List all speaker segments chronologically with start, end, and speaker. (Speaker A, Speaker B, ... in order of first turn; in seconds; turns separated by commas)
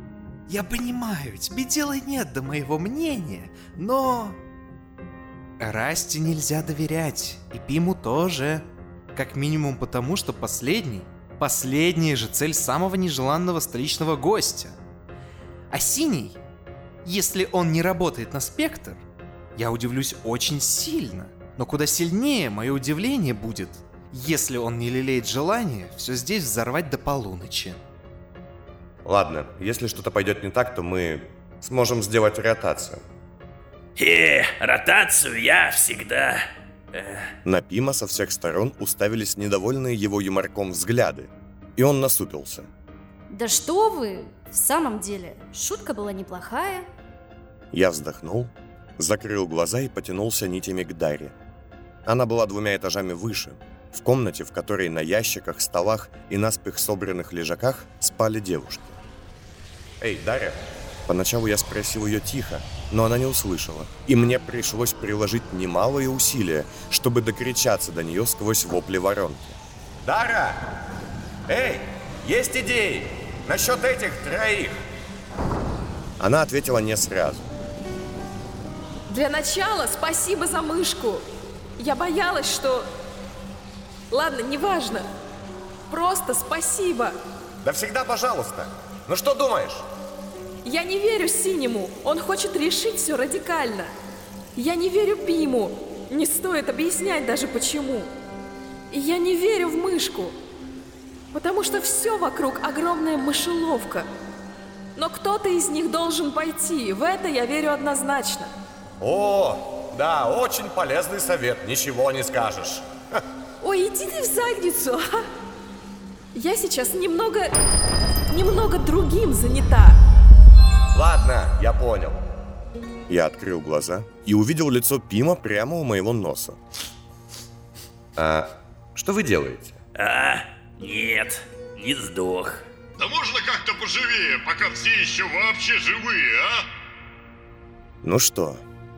Speaker A: 0.5-4.4, Speaker A: 5.6-14.8, Speaker A: 15.7-16.4, Speaker A: 17.0-19.0, Speaker A: 19.6-27.8, Speaker B: 29.0-33.0, Speaker C: 34.0-36.4, Speaker C: 36.9-37.3, Speaker B: 37.4-42.7, Speaker D: 43.3-46.9, Speaker B: 47.7-51.3, Speaker B: 52.0-59.0, Speaker B: 60.0-70.6, Speaker B: 71.5-74.8, Speaker B: 76.2-77.5, Speaker E: 79.1-81.2, Speaker E: 81.8-82.9, Speaker E: 84.1-85.1, Speaker E: 85.9-87.2, Speaker B: 87.6-89.8, Speaker E: 90.6-93.9, Speaker E: 94.5-98.1, Speaker E: 98.9-100.3, Speaker E: 101.3-104.1, Speaker E: 105.0-108.5, Speaker B: 109.0-112.8, Speaker E: 113.6-115.2, Speaker E: 116.3-117.5, Speaker E: 118.3-120.0, Speaker B: 120.9-122.2, Speaker B: 123.1-126.6, Speaker B: 128.2-129.8, Speaker C: 129.9-132.6, Speaker F: 133.0-136.6, Speaker B: 138.0-138.6